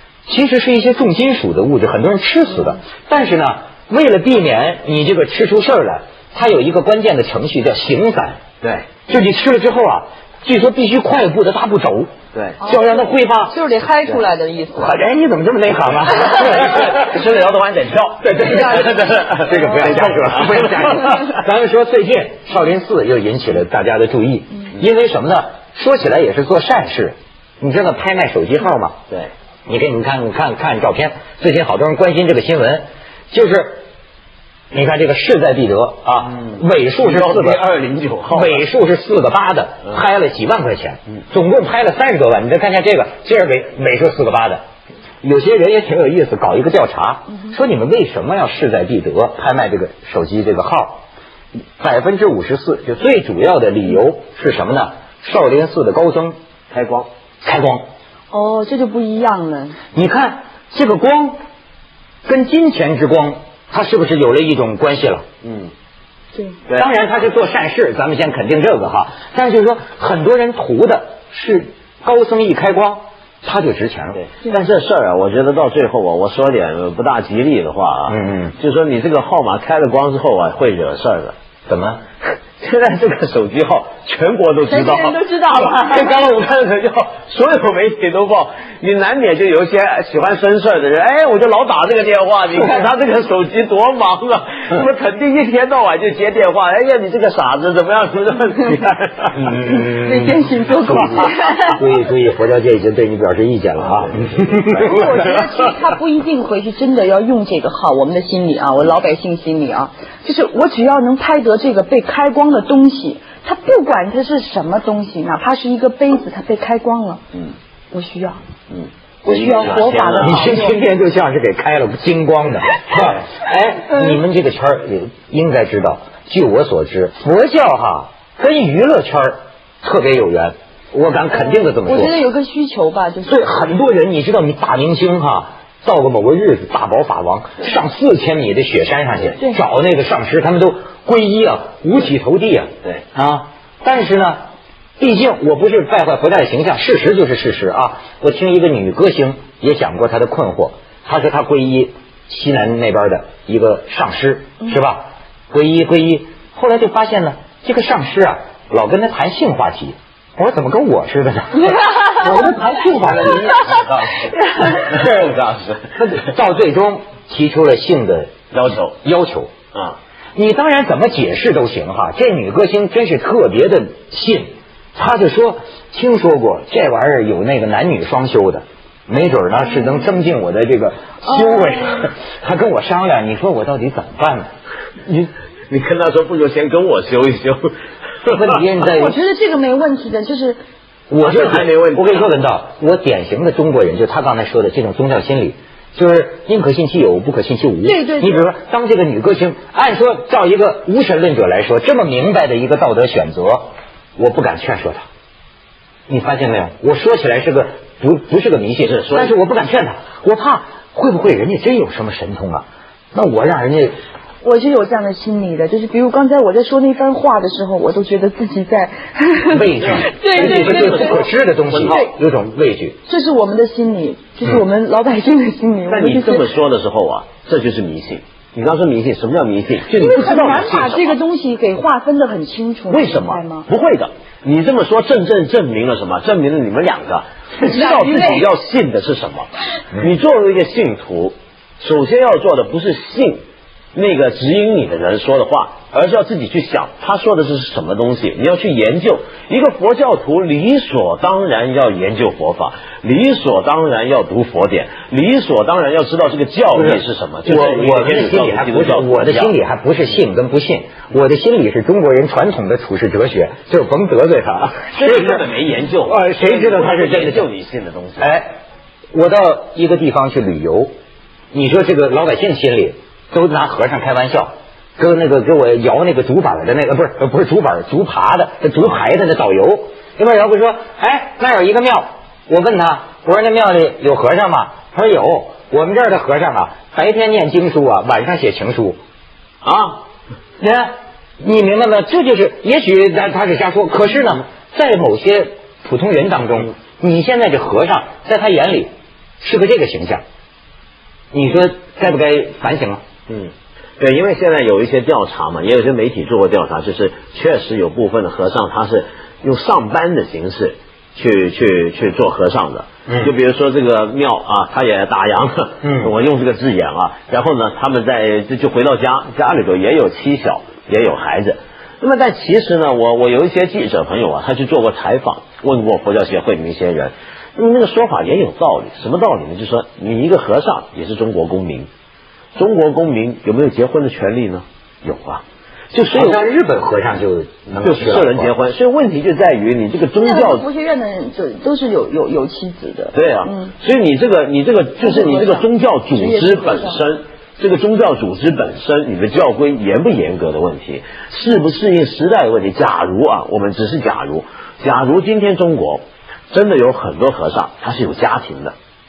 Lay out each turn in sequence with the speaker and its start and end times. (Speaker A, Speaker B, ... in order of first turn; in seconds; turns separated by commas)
Speaker A: 0.3-8.4, Speaker B: 8.6-8.9, Speaker A: 9.1-13.6, Speaker C: 12.6-15.0, Speaker A: 14.8-16.9, Speaker B: 16.3-21.2, Speaker A: 18.2-29.0, Speaker C: 18.4-18.9, Speaker C: 19.5-19.9, Speaker A: 29.7-33.8, Speaker A: 34.7-37.6, Speaker B: 36.5-38.6, Speaker A: 38.3-44.6, Speaker A: 45.2-51.0, Speaker A: 51.8-56.4, Speaker B: 56.7-57.1, Speaker A: 57.4-57.8, Speaker C: 58.3-59.8, Speaker A: 59.9-61.4, Speaker A: 62.3-65.2, Speaker B: 65.4-65.7, Speaker A: 66.8-74.2, Speaker B: 74.2-81.3, Speaker A: 78.1-78.6, Speaker A: 81.7-82.0, Speaker B: 82.6-99.6, Speaker C: 84.7-86.2, Speaker A: 99.3-105.1, Speaker C: 99.6-101.8, Speaker B: 103.8-105.7, Speaker C: 104.7-117.2, Speaker C: 117.9-118.4, Speaker B: 118.7-120.5, Speaker C: 119.2-120.8, Speaker A: 120.2-132.2, Speaker C: 131.5-133.7, Speaker A: 133.2-144.4, Speaker A: 145.0-163.8, Speaker B: 163.0-166.0, Speaker A: 166.0-168.3, Speaker B: 168.5-169.0, Speaker A: 169.0-169.5, Speaker A: 170.3-184.5, Speaker C: 179.8-180.1, Speaker C: 181.3-182.0, Speaker B: 185.1-187.7, Speaker B: 188.2-188.6, Speaker A: 188.3-189.2, Speaker C: 188.8-190.6, Speaker A: 191.1-205.0, Speaker B: 191.2-192.3, Speaker C: 197.8-198.4, Speaker A: 206.1-213.9, Speaker B: 208.8-209.3, Speaker C: 214.4-221.3, Speaker A: 219.5-223.0, Speaker B: 219.8-222.0, Speaker C: 221.8-222.1, Speaker C: 223.1-226.5, Speaker B: 225.9-231.2, Speaker C: 229.9-233.7, Speaker B: 232.9-243.4, Speaker C: 237.6-238.5, Speaker B: 243.9-259.5, Speaker A: 256.7-265.4, Speaker B: 264.9-268.3, Speaker A: 266.1-267.5, Speaker A: 268.2-268.5, Speaker A: 269.1-270.9, Speaker A: 271.5-289.0, Speaker B: 289.6-290.0, Speaker A: 290.6-298.9, Speaker A: 299.4-300.2, Speaker A: 301.3-303.0, Speaker B: 303.3-331.9, Speaker A: 313.1-313.3, Speaker A: 315.8-316.1, Speaker B: 332.6-336.4, Speaker A: 336.1-338.5, Speaker B: 337.8-340.7, Speaker C: 340.1-343.7, Speaker B: 343.1-358.8, Speaker C: 345.0-347.0